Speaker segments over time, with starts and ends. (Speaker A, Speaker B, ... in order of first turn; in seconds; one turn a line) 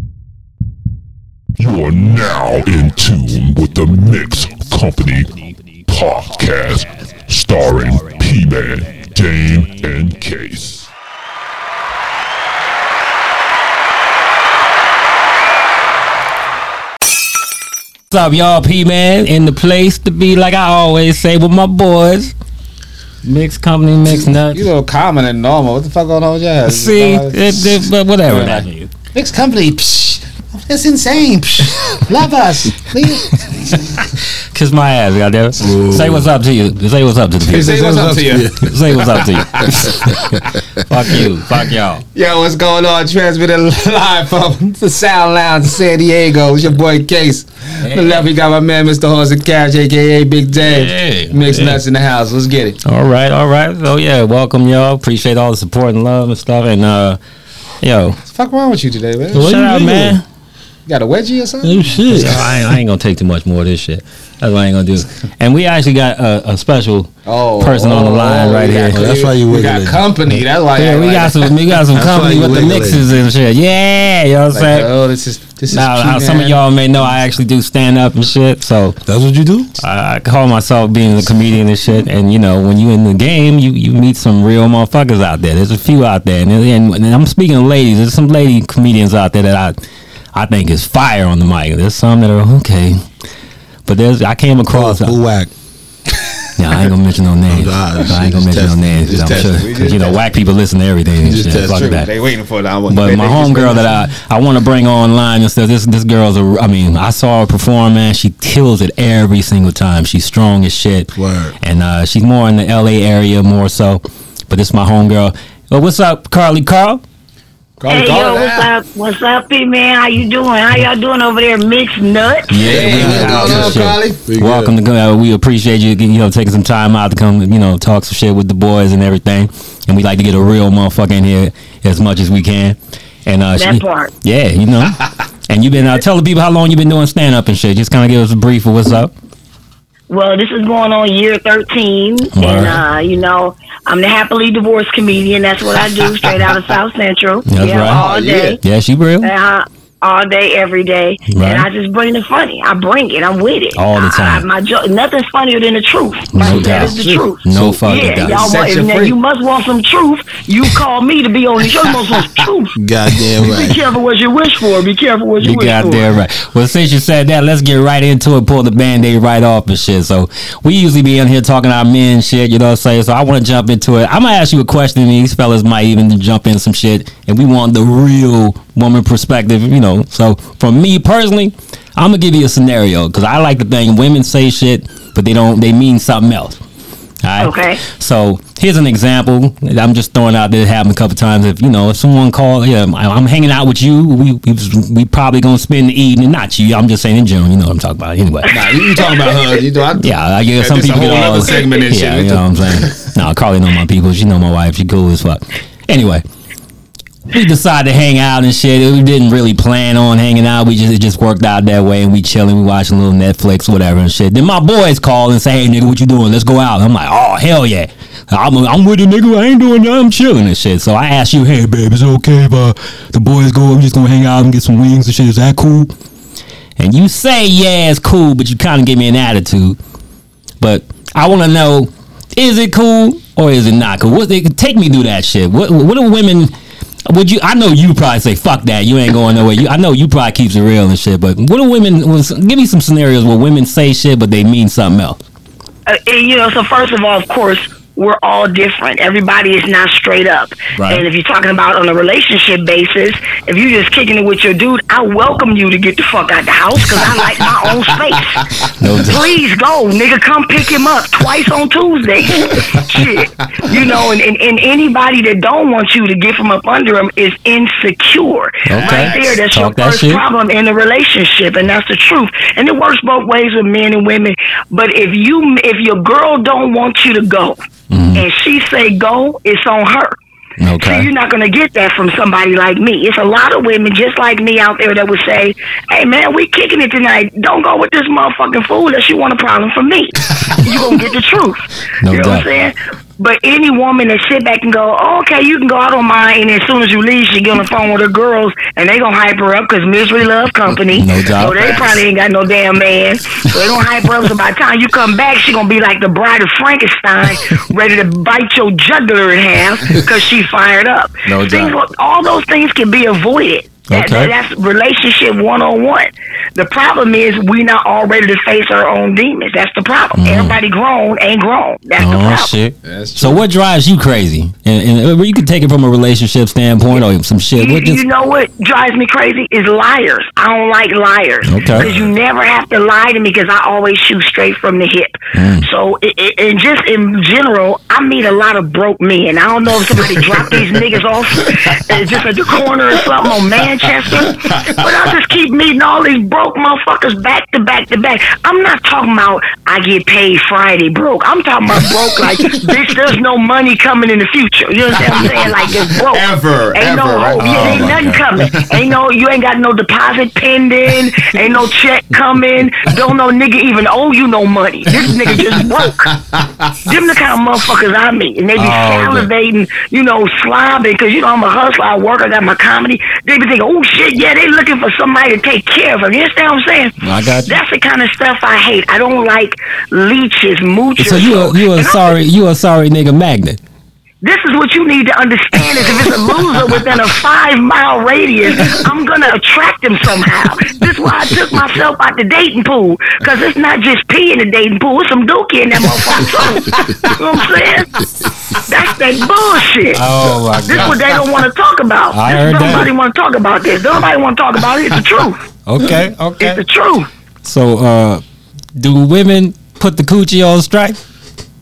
Speaker A: 1.6-10.9
Speaker B: 18.1-22.3
Speaker B: 23.2-24.6
Speaker C: 24.5-34.0
Speaker B: 26.7-28.9
Speaker B: 34.5-42.0
Speaker D: 35.6-36.3
Speaker D: 37.5-40.4
Speaker C: 37.5-39.0
Speaker C: 39.5-40.0
Speaker C: 42.1-52.8
Speaker B: 47.8-48.3
Speaker B: 50.6-51.8
Speaker B: 52.9-57.2
Speaker B: 57.8-58.2
Speaker C: 58.2-60.1
Speaker B: 59.3-60.2
Speaker D: 59.4-60.1
Speaker C: 60.9-62.2
Speaker D: 61.6-62.5
Speaker B: 62.1-69.2
Speaker C: 67.2-71.5
Speaker D: 68.9-70.0
Speaker B: 70.8-74.9
Speaker D: 72.0-73.0
Speaker C: 74.5-76.6
Speaker B: 75.7-79.0
Speaker D: 79.1-79.8
Speaker B: 79.8-89.8
Speaker B: 90.3-93.0
Speaker B: 93.9-95.2
Speaker D: 94.7-95.5
Speaker B: 96.6-102.1
Speaker D: 97.5-99.7
Speaker C: 99.4-100.2
Speaker D: 101.2-101.8
Speaker C: 101.6-104.1
Speaker B: 102.9-117.0
Speaker D: 111.2-111.5
Speaker C: 117.8-118.7
Speaker E: 117.9-122.6
Speaker B: 122.5-139.1
Speaker C: 122.6-124.2
Speaker D: 122.6-124.7
Speaker E: 133.6-134.1
Speaker E: 140.1-148.6
Speaker B: 142.4-142.8
Speaker B: 147.5-148.0
Speaker C: 147.8-148.6
Speaker B: 148.6-149.3
Speaker E: 149.2-162.7
Speaker B: 151.3-151.7
Speaker B: 153.8-154.4
Speaker B: 156.3-158.6
Speaker D: 156.4-157.9
Speaker C: 158.1-159.2
Speaker D: 162.8-163.8
Speaker E: 163.4-166.1
Speaker B: 165.4-186.6
Speaker B: 187.2-198.7
Speaker E: 187.4-187.8
Speaker C: 198.5-203.1
Speaker B: 200.0-206.2
Speaker B: 207.3-225.9
Speaker B: 226.8-229.8
Speaker B: 230.6-236.5
Speaker B: 237.1-245.2
Speaker E: 245.9-258.4
Speaker B: 250.8-251.0
Speaker C: 257.9-258.7
Speaker B: 258.8-259.2
Speaker E: 259.0-277.6
Speaker C: 262.7-263.1
Speaker C: 263.7-263.9
Speaker B: 268.7-270.2
Speaker C: 268.8-269.3
Speaker B: 277.9-278.2
Speaker E: 278.1-280.1
Speaker B: 280.6-281.1
Speaker E: 280.8-322.5
Speaker B: 292.0-292.5
Speaker B: 300.9-302.0
Speaker B: 311.3-311.8
Speaker B: 313.9-314.3
Speaker B: 320.2-320.6
Speaker B: 322.0-328.0
Speaker C: 322.8-323.4
Speaker E: 327.6-366.1
Speaker B: 331.5-331.9
Speaker D: 331.6-332.1
Speaker B: 335.4-335.6
Speaker C: 339.9-340.8
Speaker C: 341.6-342.3
Speaker C: 343.2-345.1
Speaker C: 355.0-358.0
Speaker B: 357.4-358.2
Speaker D: 357.4-358.2
Speaker C: 365.3-366.8
Speaker E: 366.9-382.2
Speaker B: 368.6-369.3
Speaker B: 377.0-377.5
Speaker B: 381.0-383.6
Speaker E: 384.2-397.9
Speaker C: 396.5-397.2
Speaker E: 398.6-400.1
Speaker B: 399.9-401.0
Speaker E: 400.6-405.4
Speaker B: 402.1-402.9
Speaker B: 405.7-406.6
Speaker E: 406.4-407.1
Speaker B: 407.4-408.2
Speaker B: 408.8-411.0